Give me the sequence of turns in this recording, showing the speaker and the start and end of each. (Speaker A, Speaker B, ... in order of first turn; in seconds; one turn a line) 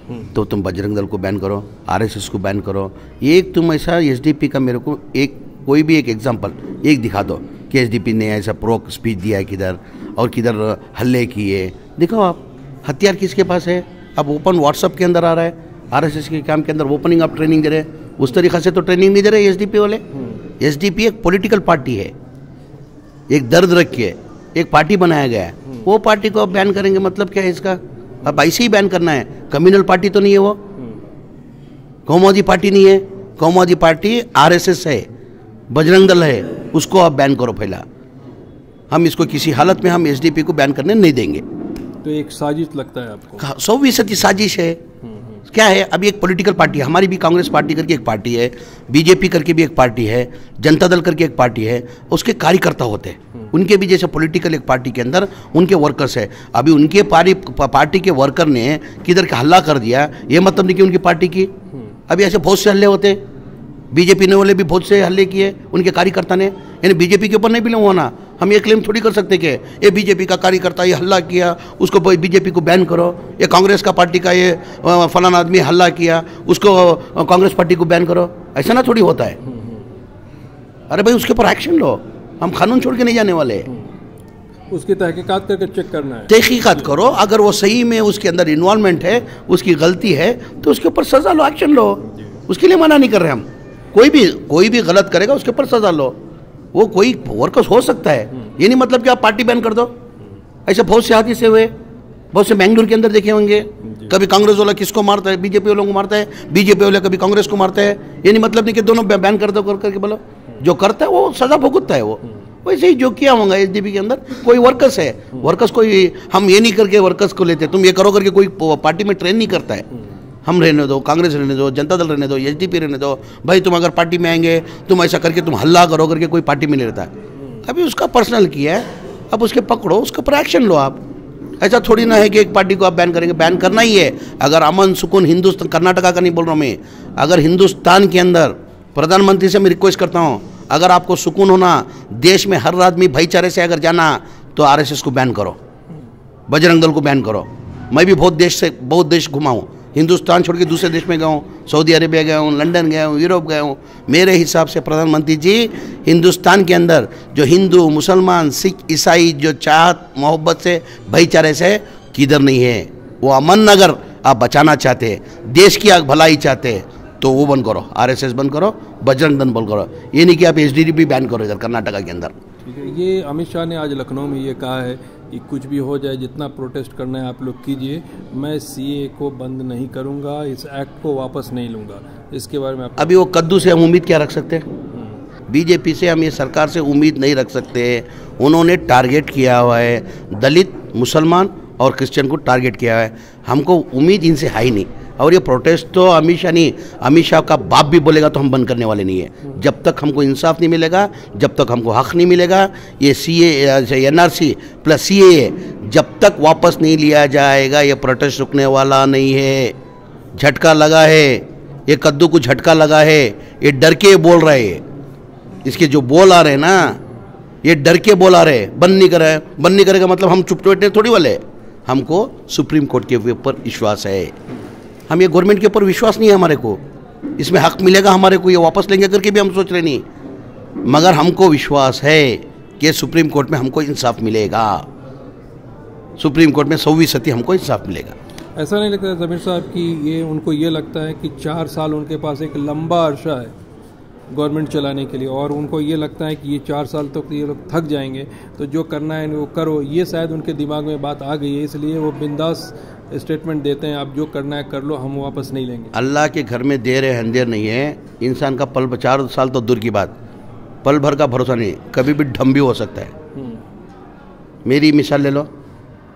Speaker A: 0.3-20.0
Speaker A: 20.6-22.1
Speaker A: 23.3-30.6
Speaker A: 32.1-35.1
Speaker A: 35.7-37.8
Speaker A: 38.9-41.4
Speaker B: 42.0-43.5
Speaker A: 43.4-44.8
Speaker A: 45.5-61.5
Speaker A: 62.1-63.2
Speaker A: 63.9-79.4
Speaker B: 79.5-79.8
Speaker A: 80.9-83.7
Speaker B: 84.7-86.4
Speaker A: 86.3-96.2
Speaker A: 96.7-99.9
Speaker A: 100.7-101.7
Speaker A: 102.3-119.9
Speaker A: 120.5-127.1
Speaker A: 127.7-131.0
Speaker A: 131.6-145.6
Speaker A: 146.5-172.3
Speaker B: 172.6-183.2
Speaker A: 183.0-184.7
Speaker A: 185.5-209.7
Speaker A: 210.4-214.8
Speaker A: 215.6-217.0
Speaker A: 217.6-224.3
Speaker A: 225.1-226.8
Speaker A: 227.4-230.0
Speaker A: 230.9-234.9
Speaker A: 236.2-238.2
Speaker B: 238.6-243.5
Speaker B: 244.3-255.9
Speaker A: 255.9-260.1
Speaker A: 260.8-263.1
Speaker A: 264.6-265.5